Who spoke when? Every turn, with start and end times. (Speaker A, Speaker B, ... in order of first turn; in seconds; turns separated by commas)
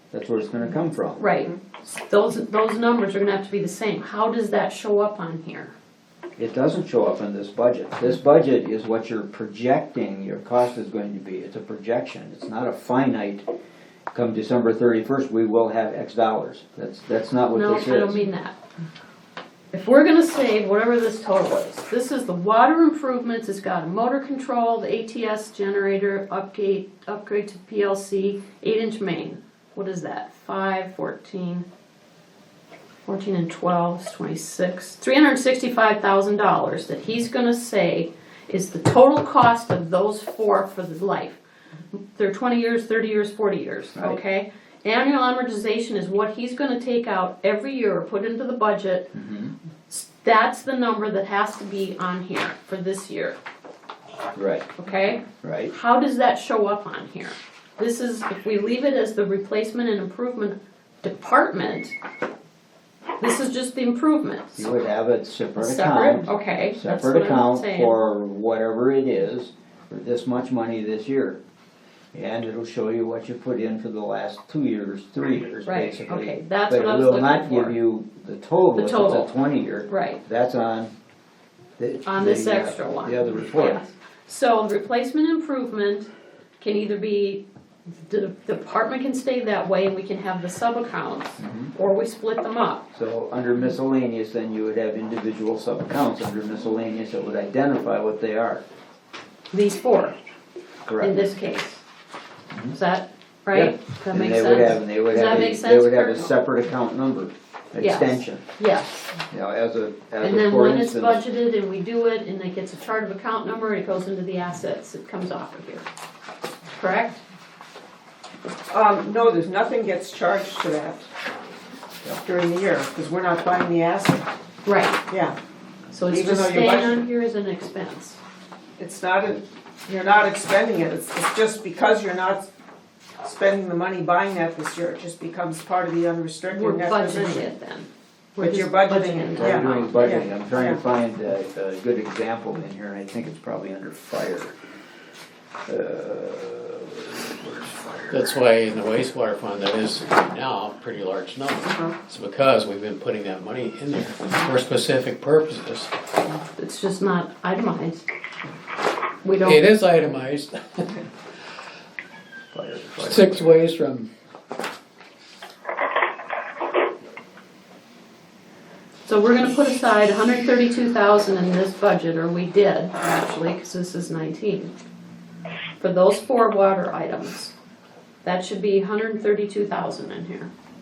Speaker A: 0.1-1.3, Speaker B: 1.2-5.8, Speaker A: 6.4-13.5, Speaker A: 14.1-18.2, Speaker B: 17.5-18.6, Speaker B: 19.7-31.7, Speaker B: 33.1-41.4, Speaker B: 42.1-49.1, Speaker A: 49.1-49.5, Speaker B: 49.9-53.4, Speaker A: 54.4-54.7, Speaker B: 54.8-61.9, Speaker A: 55.2-55.7, Speaker B: 63.2-64.7, Speaker A: 64.6-71.4, Speaker B: 65.6-68.0, Speaker A: 72.1-80.9, Speaker B: 75.7-77.8, Speaker B: 78.8-79.3, Speaker B: 79.9-80.2, Speaker A: 81.8-83.8, Speaker B: 82.0-86.1, Speaker B: 86.6-92.8, Speaker A: 91.4-91.7, Speaker A: 92.9-98.6, Speaker B: 99.5-100.2, Speaker A: 100.9-101.2, Speaker B: 101.0-101.8, Speaker A: 102.5-102.8, Speaker B: 102.7-106.3, Speaker A: 103.5-108.4, Speaker B: 107.8-109.2, Speaker A: 109.3-111.2, Speaker B: 110.2-115.8, Speaker B: 116.8-117.2, Speaker C: 118.7-121.1, Speaker C: 122.2-124.3, Speaker B: 124.7-125.0, Speaker C: 125.1-125.4, Speaker B: 125.9-128.2, Speaker C: 126.1-127.0, Speaker C: 128.8-132.5, Speaker C: 133.2-137.5, Speaker B: 136.5-140.2, Speaker C: 138.4-140.8, Speaker A: 139.4-144.6, Speaker A: 145.7-148.3, Speaker D: 148.1-155.9, Speaker B: 156.6-158.0, Speaker B: 159.2-159.7, Speaker D: 159.4-160.9, Speaker A: 162.5-163.6, Speaker D: 163.0-164.1, Speaker B: 169.1-174.7, Speaker B: 175.8-177.5, Speaker B: 178.2-180.5